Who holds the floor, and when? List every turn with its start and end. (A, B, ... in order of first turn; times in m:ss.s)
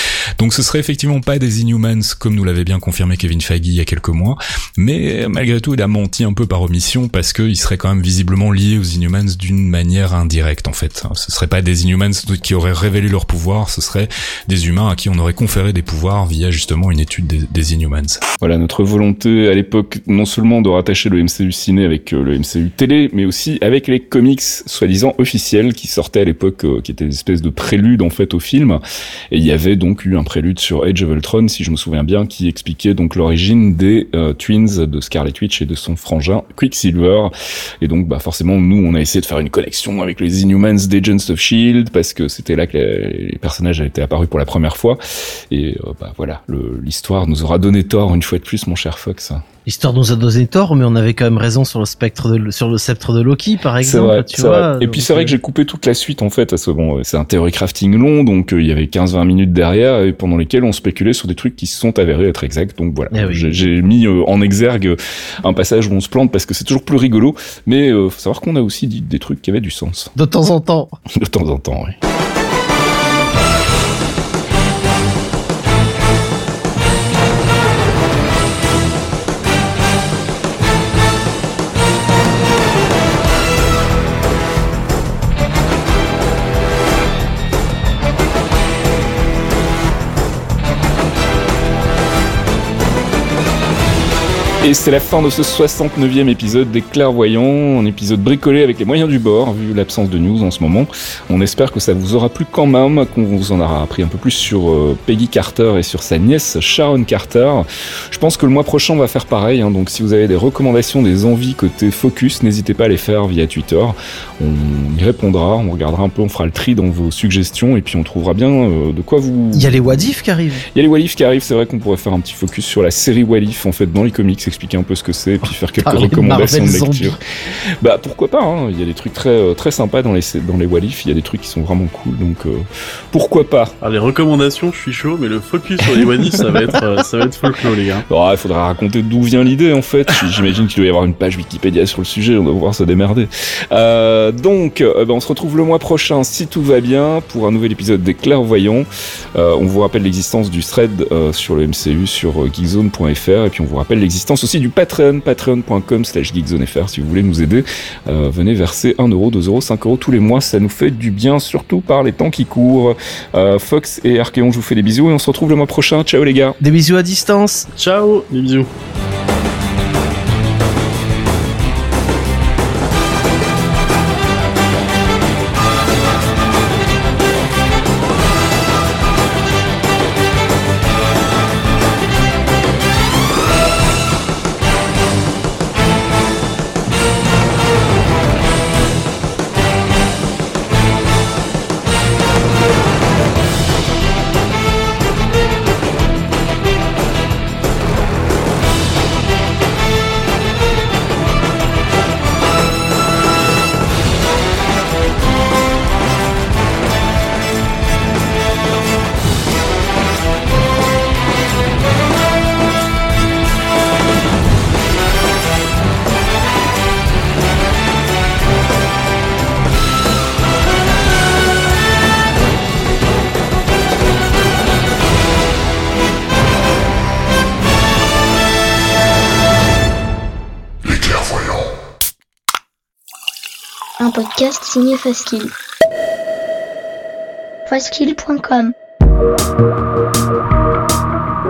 0:00.4-0:45.0 A
0:45.5-0:49.4 A
0:49.6-0:55.4 B
0:53.8-1:10.1 A
1:03.1-1:03.6 B
1:10.1-1:10.9 B
1:11.2-1:12.0 A
1:34.6-2:00.1 A
1:59.5-2:00.6 B
2:00.7-2:07.2 A
2:05.8-2:07.2 B
2:07.8-2:13.7 A
2:13.8-2:18.0 C
2:18.1-2:46.6 A
2:46.6-2:47.7 B
2:47.7-2:48.7 C
3:54.0-3:55.5 D
3:57.7-3:58.7 D